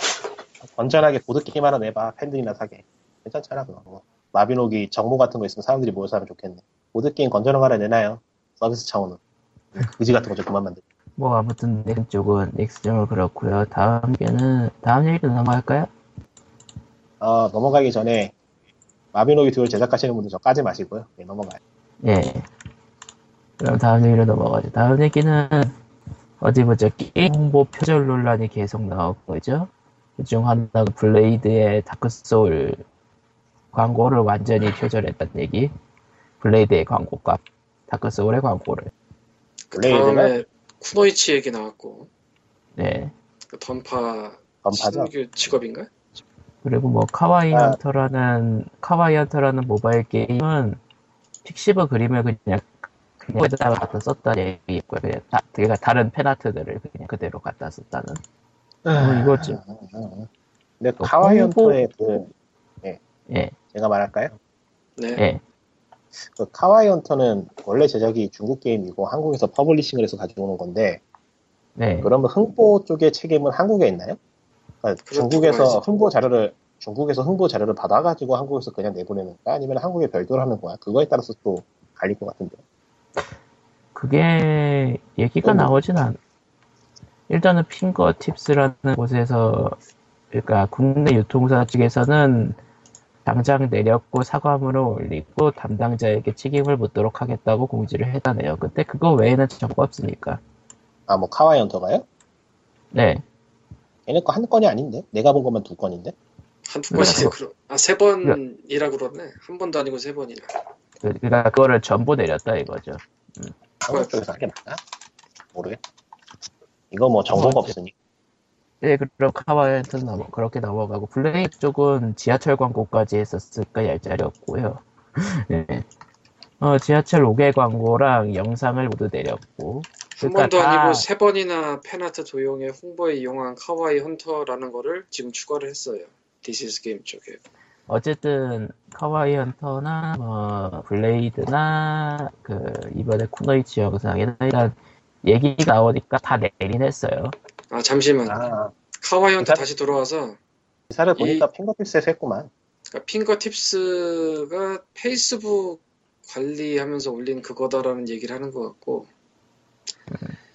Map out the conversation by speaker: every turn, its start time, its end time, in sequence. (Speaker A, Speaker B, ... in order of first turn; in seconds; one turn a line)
Speaker A: 0.6-9.2
Speaker A: 9.7-10.8
Speaker B: 11.2-15.9
Speaker A: 17.2-18.3
Speaker A: 19.1-21.6
Speaker B: 22.0-22.5
Speaker B: 23.6-25.8
Speaker B: 26.4-32.8
Speaker B: 33.7-35.7
Speaker B: 36.4-38.9
Speaker C: 39.7-42.1
Speaker A: 39.7-40.3
Speaker B: 42.8-43.1
Speaker C: 43.5-45.9
Speaker A: 44.6-45.1
Speaker B: 46.6-50.8
Speaker A: 47.5-47.8
Speaker B: 51.4-52.7
Speaker B: 53.2-58.2
Speaker A: 58.8-60.3
Speaker B: 58.9-59.6
Speaker A: 60.8-62.3
Speaker B: 61.0-61.8
Speaker B: 63.3-63.5
Speaker A: 63.7-64.3
Speaker C: 65.0-65.2
Speaker A: 66.2-71.0
Speaker B: 71.8-72.1
Speaker A: 72.0-74.2
Speaker A: 74.8-82.6
Speaker C: 75.0-75.9
Speaker B: 83.9-86.2
Speaker A: 85.4-86.0
Speaker B: 87.3-89.8
Speaker B: 90.3-92.6
Speaker B: 93.2-100.4
Speaker A: 101.1-102.0
Speaker B: 102.9-103.2
Speaker A: 104.1-106.1
Speaker C: 106.7-110.5
Speaker B: 106.9-107.3
Speaker B: 111.0-113.5
Speaker A: 113.8-114.8
Speaker A: 115.5-115.8
Speaker A: 116.9-117.9
Speaker B: 117.3-117.7
Speaker B: 118.8-125.8
Speaker B: 126.6-131.0
Speaker C: 130.2-137.4
Speaker B: 137.9-147.3
Speaker C: 147.7-148.4
Speaker A: 148.2-148.7
Speaker C: 149.0-150.4
Speaker A: 149.4-149.6
Speaker A: 150.9-152.5
Speaker C: 151.2-151.4
Speaker C: 152.9-159.1